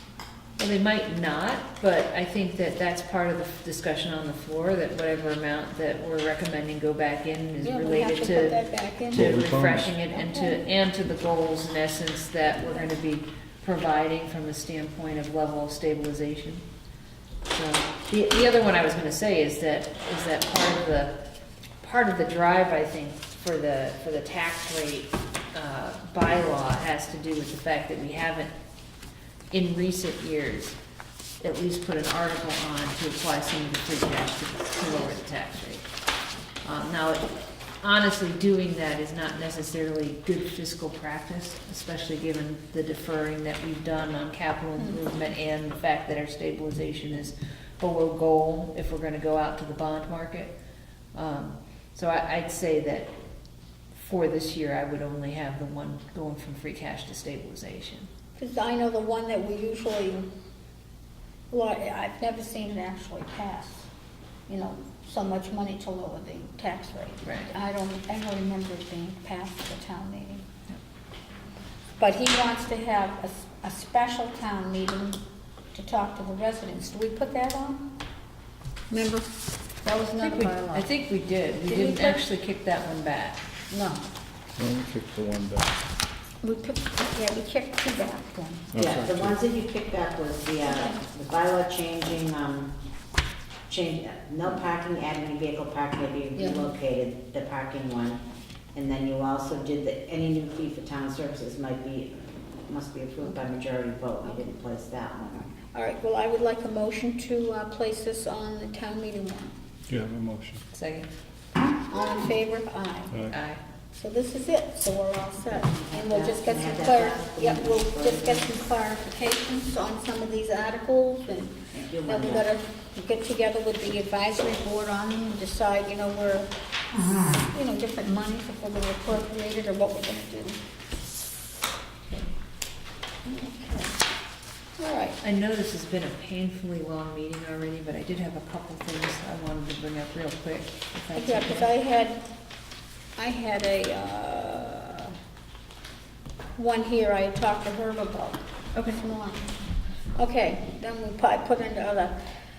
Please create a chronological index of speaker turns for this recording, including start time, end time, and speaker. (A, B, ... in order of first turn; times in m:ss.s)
0:00.6-0:16.6 A
0:07.6-0:09.4 B
0:09.1-0:09.9 C
0:10.1-0:10.6 B
0:17.5-0:21.2 A
0:21.8-0:28.5 A
0:29.5-0:30.8 A
0:31.4-0:35.8 A
0:36.6-0:50.5 A
0:51.1-0:53.1 A
0:53.9-0:58.1 A
0:58.4-1:00.3 B
1:01.5-1:03.9 B
1:04.5-1:10.5 B
1:07.2-1:07.5 A
1:12.0-1:15.2 B
1:15.7-1:17.9 B
1:18.9-1:19.3 B
1:19.8-1:20.9 B
1:20.2-1:23.4 A
1:21.6-1:22.2 B
1:23.7-1:24.0 B
1:24.6-1:25.7 C
1:26.4-1:28.7 B
1:28.7-1:29.4 C
1:28.8-1:32.7 D
1:30.6-1:31.0 B
1:33.7-1:38.2 D
1:36.4-1:36.7 B
1:38.7-1:45.4 D
1:44.2-1:44.5 B
1:45.2-1:49.5 B
1:49.9-1:50.6 C
1:50.7-1:51.1 A
1:51.8-1:53.2 B
1:53.3-1:53.6 A
1:53.9-2:06.5 B
1:55.5-1:58.5 D
2:01.7-2:02.5 D
2:07.4-2:10.6 B
2:12.1-2:12.3 A
2:13.2-2:14.0 B
2:14.8-2:15.2 B
2:15.2-2:21.7 A
2:21.1-2:22.2 B
2:23.2-2:25.2 B
2:26.6-2:29.5 B
2:28.7-2:29.0 A
2:30.2-2:32.1 B